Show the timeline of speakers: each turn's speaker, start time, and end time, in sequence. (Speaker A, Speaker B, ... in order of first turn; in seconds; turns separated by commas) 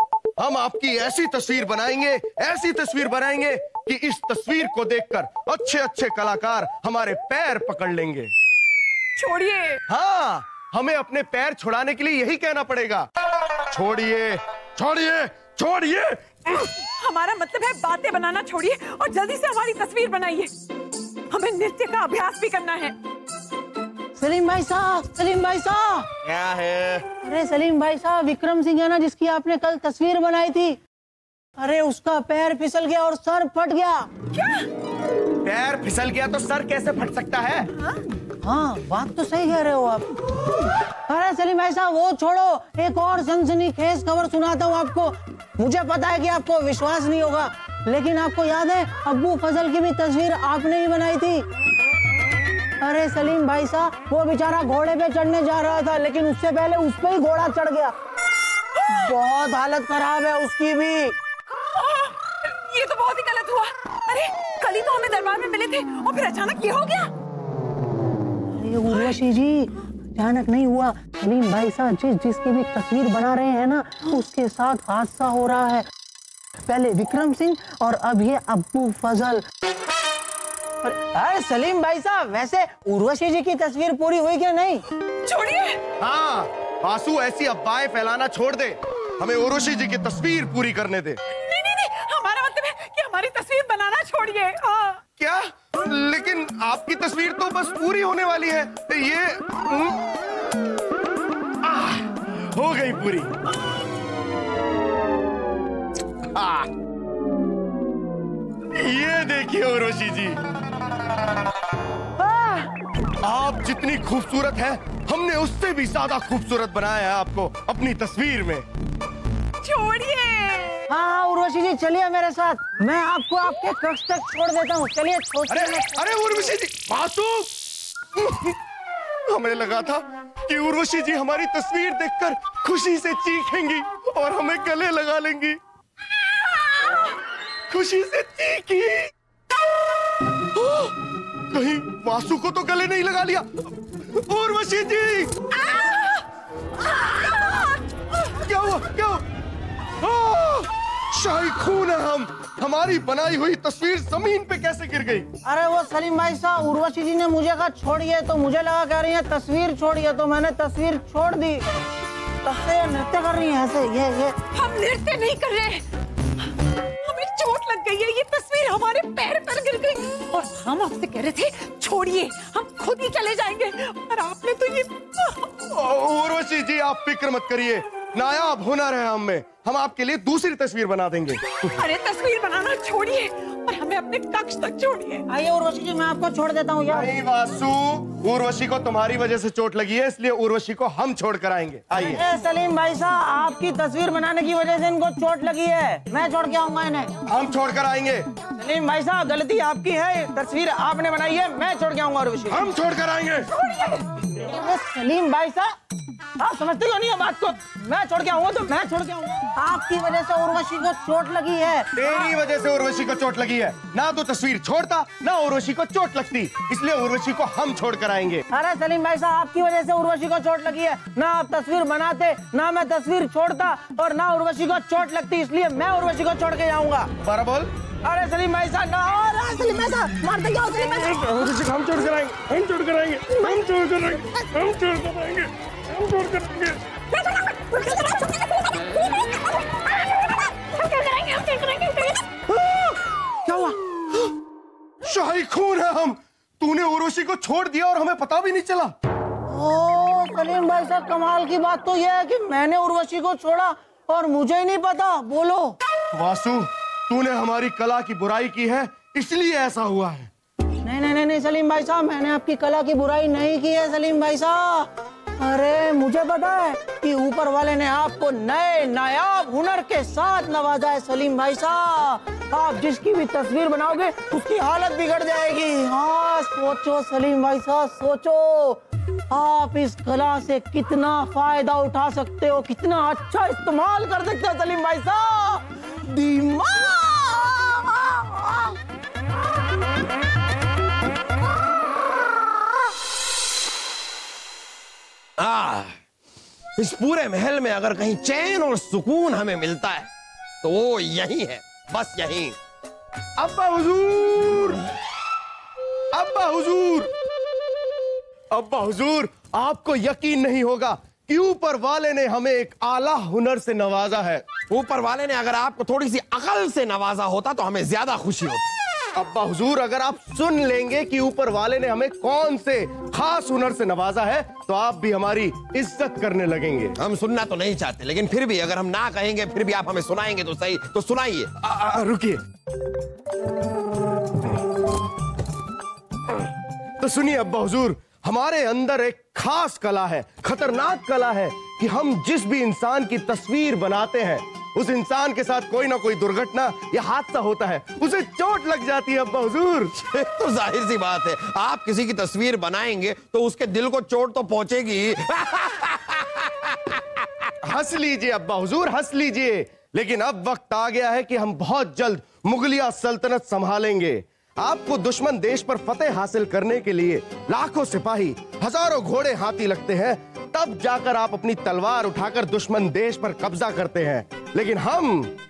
Speaker A: 0.4-8.3, Speaker B: 9.2-9.8, Speaker A: 9.9-13.1, Speaker A: 13.7-16.7, Speaker B: 17.0-20.5, Speaker B: 21.3-22.9, Speaker C: 24.2-26.1, Speaker A: 26.2-27.0, Speaker C: 27.2-30.8, Speaker C: 31.6-34.1, Speaker B: 34.3-34.6, Speaker A: 35.4-37.7, Speaker C: 38.4-40.1, Speaker C: 41.1-51.4, Speaker C: 52.8-57.9, Speaker C: 58.9-61.1, Speaker B: 61.7-67.1, Speaker C: 68.5-75.8, Speaker C: 76.7-79.4, Speaker C: 80.8-84.8, Speaker B: 85.2-85.8, Speaker A: 86.0-91.2, Speaker B: 91.3-95.0, Speaker A: 95.2-100.0, Speaker A: 101.6-103.3, Speaker A: 106.3-106.7, Speaker A: 108.7-110.4, Speaker C: 112.2-112.7, Speaker A: 113.2-118.7, Speaker B: 119.6-120.8, Speaker C: 120.9-126.0, Speaker A: 125.5-127.6, Speaker A: 128.1-128.6, Speaker A: 129.3-135.6, Speaker A: 137.7-139.1, Speaker A: 140.5-140.9, Speaker A: 141.5-145.4, Speaker B: 145.7-146.2, Speaker A: 148.3-149.2, Speaker A: 150.0-155.3, Speaker C: 155.4-161.7, Speaker C: 162.4-164.3, Speaker B: 164.5-165.8, Speaker B: 167.0-175.5, Speaker A: 175.7-181.7, Speaker B: 181.8-185.2, Speaker C: 185.3-187.1, Speaker A: 186.9-192.2, Speaker C: 192.1-197.1, Speaker A: 197.3-198.3, Speaker C: 198.6-202.6, Speaker A: 202.5-203.7, Speaker C: 204.3-205.7, Speaker C: 206.4-211.9, Speaker A: 211.9-218.4, Speaker C: 218.5-227.1, Speaker A: 227.2-227.7, Speaker C: 228.0-231.3, Speaker A: 231.0-235.5, Speaker A: 236.0-236.8, Speaker B: 237.1-242.3, Speaker C: 243.4-243.7, Speaker A: 245.0-248.9, Speaker C: 249.5-255.8, Speaker A: 256.1-260.3, Speaker C: 260.8-288.8, Speaker D: 295.4-296.0, Speaker D: 296.8-300.1, Speaker D: 300.6-302.6, Speaker A: 303.4-304.9, Speaker A: 306.1-307.1, Speaker A: 308.5-314.4, Speaker D: 314.7-318.6, Speaker A: 319.1-326.9, Speaker D: 327.0-331.5, Speaker A: 331.6-332.4, Speaker A: 337.0-349.9, Speaker D: 350.0-357.0, Speaker A: 357.6-375.3